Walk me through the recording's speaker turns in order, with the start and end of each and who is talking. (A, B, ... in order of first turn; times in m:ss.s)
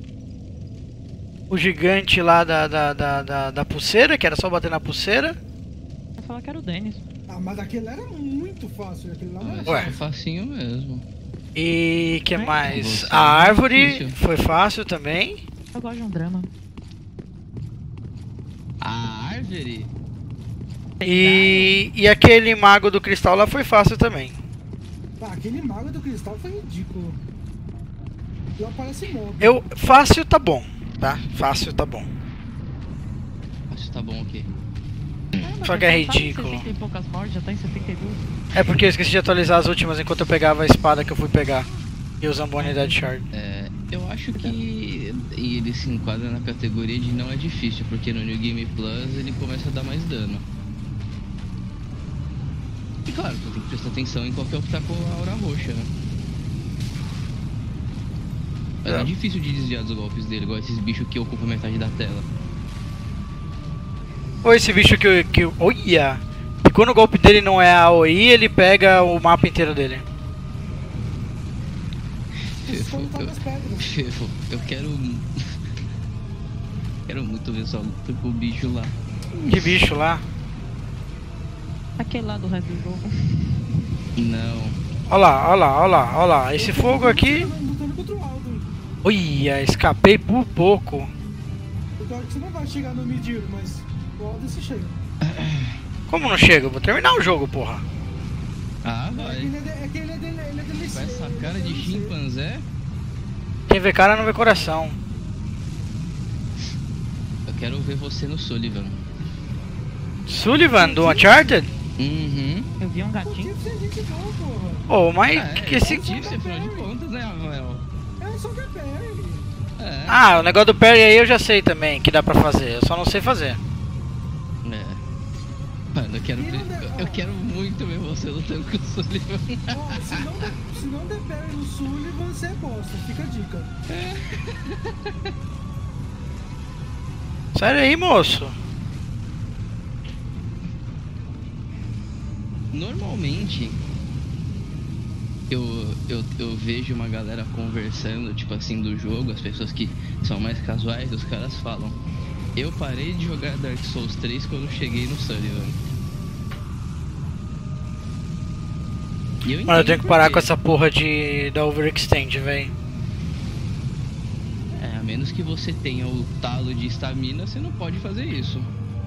0:01.5-0:05.4 A
0:06.2-0:07.0 B
0:07.3-0:10.0 C
0:09.4-0:11.0 D
0:09.7-0:09.9 A
0:11.6-0:15.4 A
0:12.4-0:12.7 B
0:12.6-0:14.2 D
0:15.7-0:16.5 B
0:18.8-0:19.9 D
0:21.0-0:21.8 B
0:21.0-0:24.4 A
0:25.2-0:27.2 C
0:28.6-0:29.6 C
0:29.4-0:32.1 A
0:33.7-0:34.5 D
0:35.4-0:38.2 B
0:35.6-0:36.7 A
0:38.6-0:41.7 A
0:42.2-0:43.2 A
0:42.6-0:43.2 B
0:43.3-0:50.4 D
0:53.1-0:55.9 D
0:58.8-1:02.3 D
1:04.4-1:10.0 A
1:12.6-1:15.3 D
1:12.6-1:14.0 C
1:17.1-1:19.0 D
1:19.5-1:20.2 A
1:22.0-1:23.6 B
1:24.2-1:24.8 D
1:25.1-1:27.5 A
1:26.6-1:28.7 C
1:29.0-1:31.1 A
1:32.0-1:35.0 C
1:35.2-1:35.8 D
1:36.1-1:37.8 A
1:38.8-1:39.5 D
1:39.2-1:42.2 C
1:40.9-1:42.6 D
1:43.7-1:45.0 A
1:47.5-1:49.0 D
1:50.3-1:51.7 A
1:50.8-1:51.6 C
1:52.0-1:52.7 D
1:52.8-1:53.5 B
1:53.2-1:54.9 C
1:54.9-1:56.0 A
1:55.3-1:57.8 D
1:55.8-1:56.9 C
1:58.2-1:59.5 C
1:59.8-2:00.2 D
2:00.1-2:03.6 A
2:04.6-2:05.0 D
2:05.9-2:10.2 D
2:06.4-2:07.2 C
2:09.7-2:13.7 C
2:13.9-2:15.1 D
2:17.6-2:18.6 A
2:22.7-2:23.8 D
2:25.5-2:32.0 D
2:32.6-2:35.8 D
2:39.4-2:40.5 D
2:39.7-2:42.7 A
2:44.8-2:48.7 D